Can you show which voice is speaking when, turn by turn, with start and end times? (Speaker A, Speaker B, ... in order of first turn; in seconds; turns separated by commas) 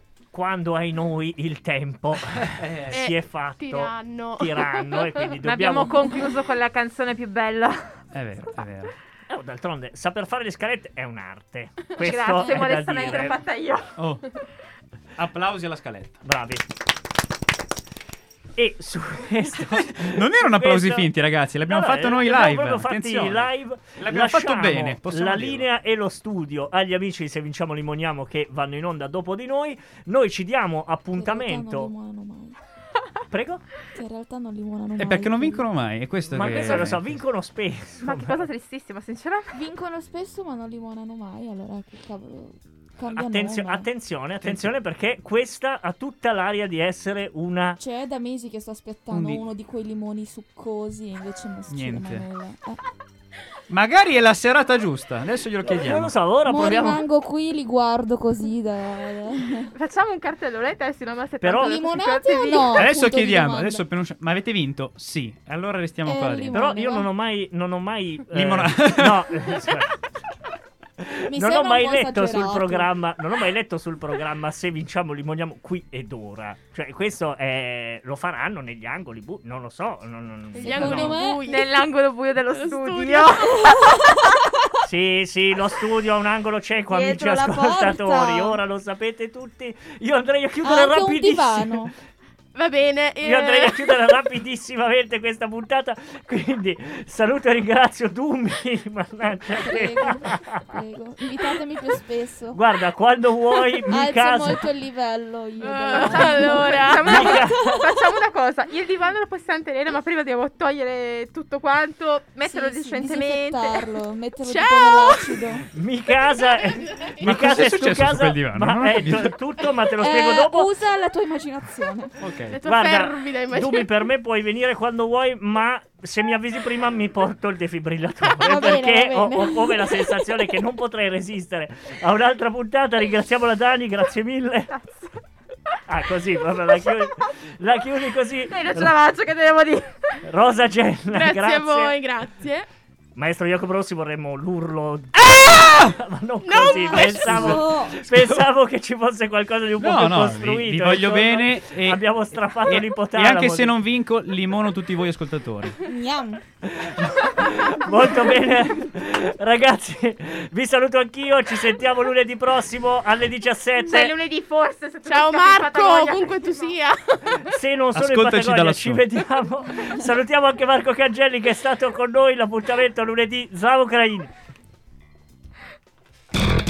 Speaker A: 0.3-6.0, Speaker B: 2.4-3.0, Speaker C: 2.9-5.3, Speaker D: 5.4-8.0, Speaker B: 8.1-8.9, Speaker A: 9.3-13.4, Speaker D: 12.0-14.0, Speaker B: 14.0-14.3, Speaker B: 15.2-16.2, Speaker A: 16.2-16.7, Speaker A: 18.6-21.1, Speaker B: 19.7-25.7, Speaker A: 21.7-31.9, Speaker E: 31.1-32.6, Speaker A: 33.3-33.6, Speaker E: 33.9-35.6, Speaker B: 35.0-37.2, Speaker A: 36.3-38.5, Speaker D: 38.0-39.5, Speaker E: 39.5-43.9, Speaker A: 43.1-47.8, Speaker B: 44.4-44.7, Speaker E: 47.8-52.8, Speaker B: 49.1-49.4, Speaker B: 51.7-52.3, Speaker B: 53.7-56.1, Speaker A: 55.7-57.0, Speaker E: 56.5-59.7, Speaker D: 59.7-62.9, Speaker A: 61.4-61.8, Speaker E: 61.6-63.8, Speaker B: 62.7-66.5, Speaker E: 66.0-67.1, Speaker A: 66.5-70.0, Speaker B: 68.3-69.8, Speaker A: 71.0-81.2, Speaker E: 71.3-72.9, Speaker E: 80.6-81.5, Speaker C: 80.6-81.9, Speaker D: 81.5-84.2, Speaker C: 82.5-83.4, Speaker E: 83.6-84.1, Speaker A: 84.8-91.8, Speaker E: 86.9-88.6, Speaker E: 90.6-91.9, Speaker C: 92.5-94.0, Speaker A: 93.2-100.6, Speaker E: 99.5-102.6, Speaker A: 102.5-104.7, Speaker E: 103.9-107.8, Speaker C: 105.6-107.1, Speaker D: 106.0-113.8, Speaker A: 107.0-107.8, Speaker E: 112.4-115.7, Speaker C: 114.4-115.6, Speaker A: 115.7-120.7, Speaker C: 116.5-117.3, Speaker B: 117.2-119.3, Speaker E: 120.0-122.2, Speaker B: 122.2-122.6, Speaker C: 122.5-124.0, Speaker A: 122.7-134.7, Speaker E: 128.3-130.5, Speaker D: 134.7-135.1, Speaker A: 135.9-138.9, Speaker D: 138.5-140.2, Speaker A: 140.2-141.9, Speaker C: 141.1-142.7, Speaker A: 143.2-153.8, Speaker B: 145.2-146.0, Speaker C: 146.4-147.4, Speaker E: 146.6-148.0, Speaker B: 147.3-148.4, Speaker B: 149.8-155.8, Speaker E: 155.8-156.4, Speaker A: 156.6-164.1, Speaker D: 163.9-166.8, Speaker C: 165.1-167.6, Speaker A: 167.5-174.3, Speaker B: 167.9-169.1